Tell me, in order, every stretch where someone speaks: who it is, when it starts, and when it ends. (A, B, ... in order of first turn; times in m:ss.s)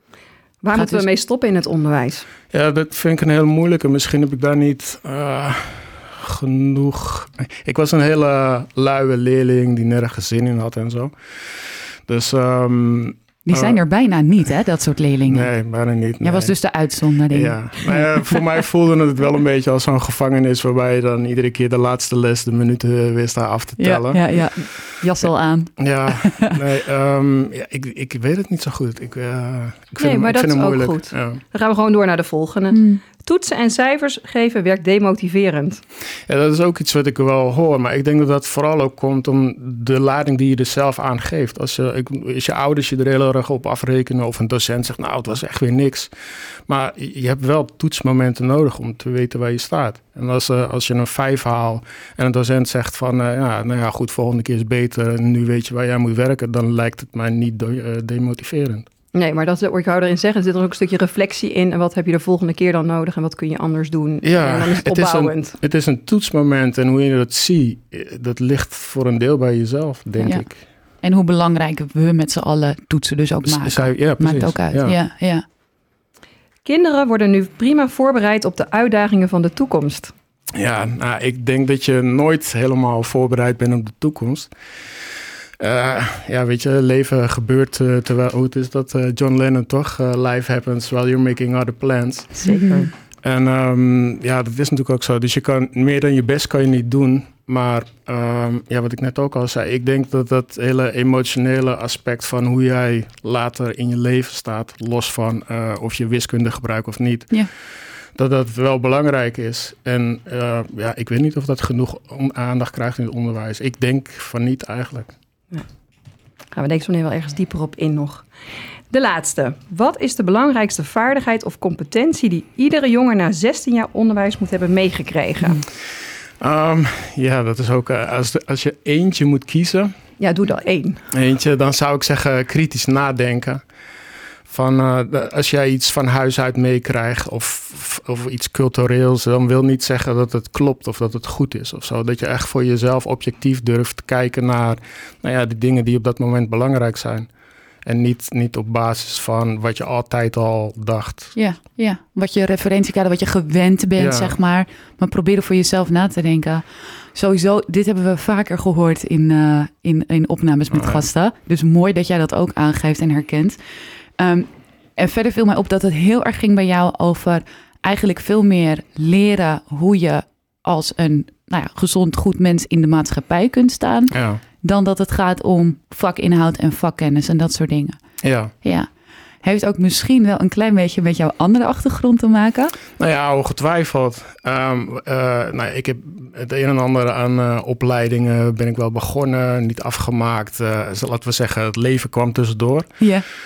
0:00.6-0:02.3 A
0:00.7-0:01.0 B
0:02.5-0:13.8 C
0:13.5-0:15.5 B
0:15.3-0:16.5 C
0:16.2-0:18.4 B
0:17.3-0:24.7 C
0:23.8-0:26.6 B
0:25.8-0:31.4 C
0:30.0-0:35.8 A
0:32.7-0:33.0 B
0:36.3-0:46.1 C
0:46.7-0:58.9 C
0:59.1-1:05.6 A
1:04.2-1:10.6 C
1:10.2-1:10.5 B
1:11.0-1:15.4 B
1:13.4-1:15.0 C
1:16.6-1:20.1 A
1:20.5-1:24.5 C
1:25.6-1:32.5 C
1:32.4-1:32.9 A
1:32.4-1:32.9 B
1:33.2-1:47.4 C
1:48.2-1:55.1 C
1:56.5-1:58.3 A
1:58.9-2:05.6 A
2:06.4-2:09.9 C
2:10.2-2:11.1 A
2:11.1-2:13.6 C
2:14.5-2:27.3 C
2:27.8-2:31.4 C
2:31.4-2:43.6 B
2:34.0-2:34.4 C
2:40.7-2:41.0 C
2:44.2-2:58.0 B
2:54.1-2:54.4 C
2:58.2-2:58.5 C
2:58.6-2:58.9 B
2:59.4-3:02.7 B
3:03.0-3:13.0 C
3:13.0-3:13.2 B